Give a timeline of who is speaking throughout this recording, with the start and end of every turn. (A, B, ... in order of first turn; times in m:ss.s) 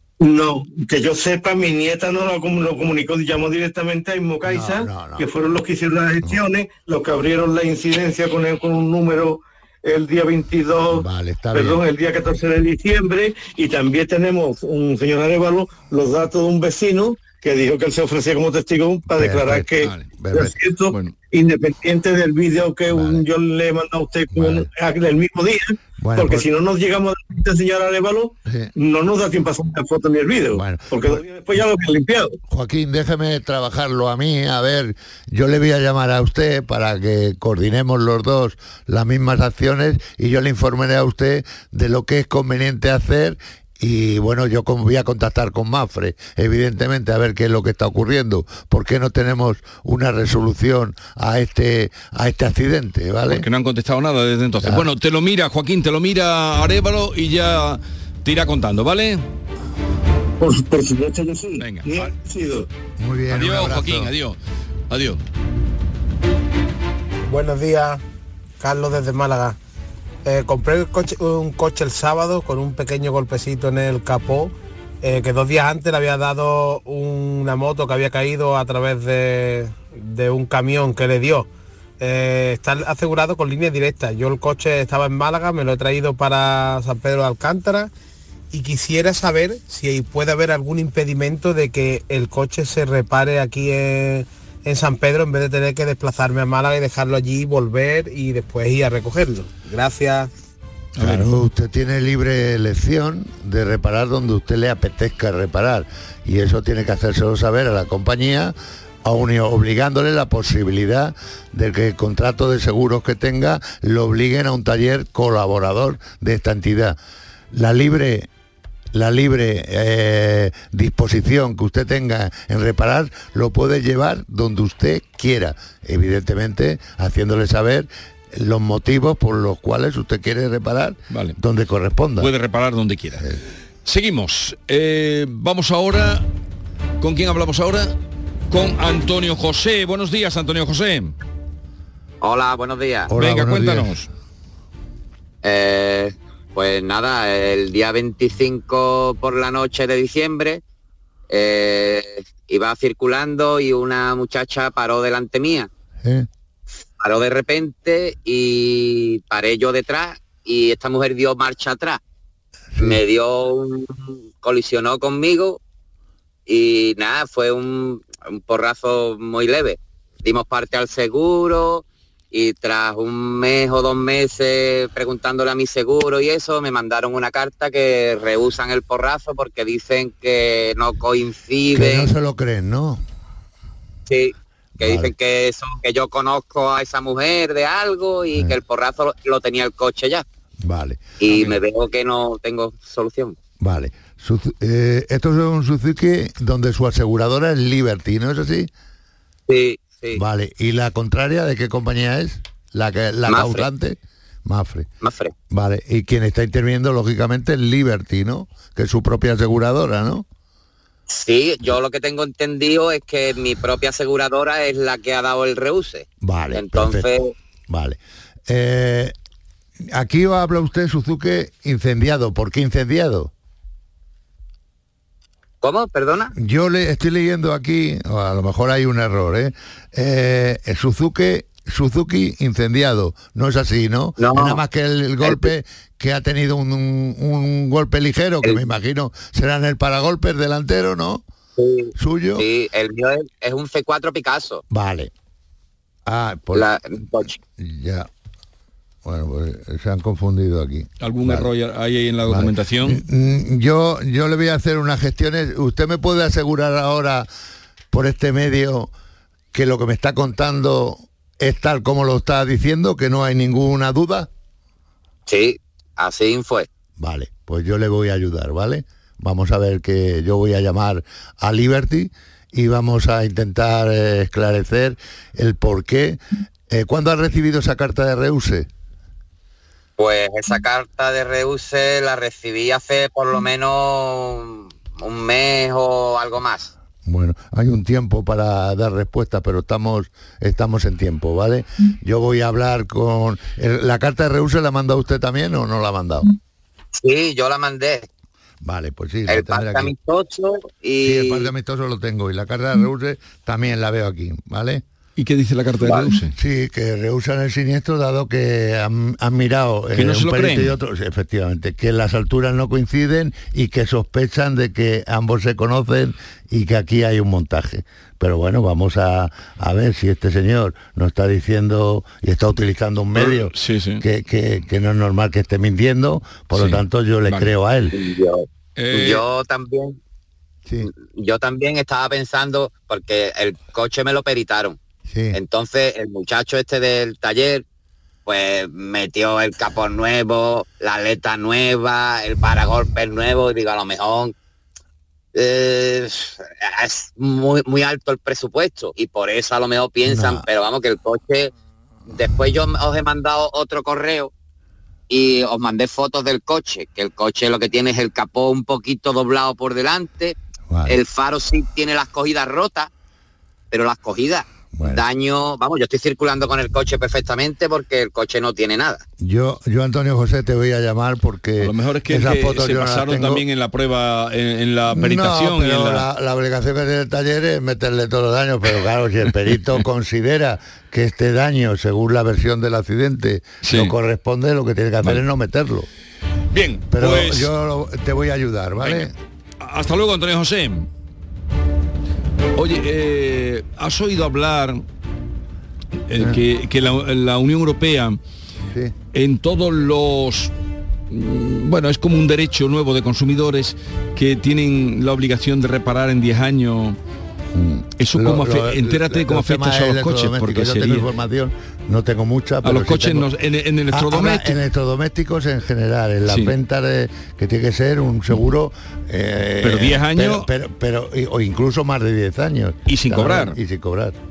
0:00.2-0:32.4 A
0:04.4-0:05.3 B
0:10.9-0:11.8 B
0:19.1-0:20.5 B
0:19.8-0:20.1 C
0:22.9-0:23.2 B
0:24.3-0:24.7 B
0:26.0-0:26.5 B
0:28.4-0:28.7 B
0:30.5-0:31.2 B
0:32.5-0:53.4 B
0:53.3-0:59.2 C
0:54.6-0:54.9 B
1:00.4-1:02.7 A
1:01.6-1:02.1 C
1:03.0-1:04.1 B
1:03.3-1:04.4 C
1:04.9-1:05.2 C
1:07.3-1:08.0 D
1:08.6-1:09.6 D
1:10.2-1:21.5 D
1:22.0-1:27.9 D
1:28.5-1:40.3 D
1:41.0-1:41.3 C
1:41.0-1:57.0 B
1:57.5-1:58.3 B
1:58.9-2:12.3 B
2:11.1-2:11.4 C
2:12.2-2:13.2 C
2:13.8-2:16.3 C
2:17.0-2:17.9 C
2:18.5-2:21.1 C
2:22.2-2:23.1 E
2:23.1-2:23.9 B
2:23.2-2:24.1 C
2:25.4-2:30.6 E
2:31.3-2:35.7 E
2:37.0-2:42.0 E
2:42.7-2:43.0 B
2:42.8-2:45.6 E
2:46.5-3:02.1 E
3:01.7-3:03.0 B
3:04.1-3:10.2 E
3:04.8-3:05.1 B
3:10.6-3:11.1 B
3:11.2-3:13.4 E
3:13.6-3:18.7 B
3:19.5-3:20.2 E
3:20.1-3:24.9 B
3:23.3-3:23.7 E
3:25.0-3:25.3 E
3:25.5-3:30.2 B
3:31.1-3:37.3 E
3:36.2-3:37.1 B
3:37.7-3:39.1 B
3:39.9-3:43.3 B
3:45.6-3:46.3 E
3:46.3-4:01.2 B
3:54.2-3:54.6 E
3:55.2-3:55.5 E
4:01.6-4:04.6 E
4:01.9-4:02.4 B
4:04.7-4:05.1 B
4:06.0-4:06.7 B
4:06.5-4:07.4 E
4:07.4-4:08.1 B
4:09.0-4:11.5 B
4:11.0-4:13.0 C
4:12.3-4:17.3 B
4:17.9-4:18.9 B
4:19.5-4:24.3 B
4:25.3-4:26.7 E
4:27.0-4:38.7 B
4:40.0-4:46.7 E
4:47.0-4:56.3 B
4:56.9-4:58.0 E
4:58.6-4:59.9 B
4:59.3-5:01.5 E
5:01.0-5:04.8 B
5:05.2-5:06.3 C
5:05.8-5:06.1 E
5:06.3-5:28.0 B
5:09.9-5:10.7 C
5:23.1-5:24.0 C
5:26.5-5:27.5 C
5:27.9-5:30.0 E
5:28.8-5:29.2 C
5:30.8-5:34.8 E
5:35.1-5:35.4 B
5:35.3-5:37.6 E
5:38.2-5:44.3 E
5:45.3-5:51.5 E
5:50.0-5:50.4 B
5:52.1-5:54.3 E
5:55.1-6:00.3 E
6:00.7-6:01.0 B
6:00.9-6:02.9 E
6:03.7-6:09.0 E
6:04.7-6:05.0 B
6:09.2-6:13.4 B
6:11.6-6:16.1 C
6:14.9-6:25.9 B
6:23.6-6:23.9 C
6:26.5-6:27.5 C
6:26.9-6:29.1 B
6:28.8-6:29.1 C
6:29.6-6:30.9 C
6:32.6-6:34.8 C
6:36.1-6:38.2 C
6:39.1-6:40.5 C
6:41.1-6:47.0 C
6:47.5-6:53.3 B
6:48.0-6:51.1 C
6:52.6-6:54.6 C
6:53.9-7:04.2 B
6:56.3-6:56.5 C
6:59.6-7:00.5 C
7:02.9-7:03.6 C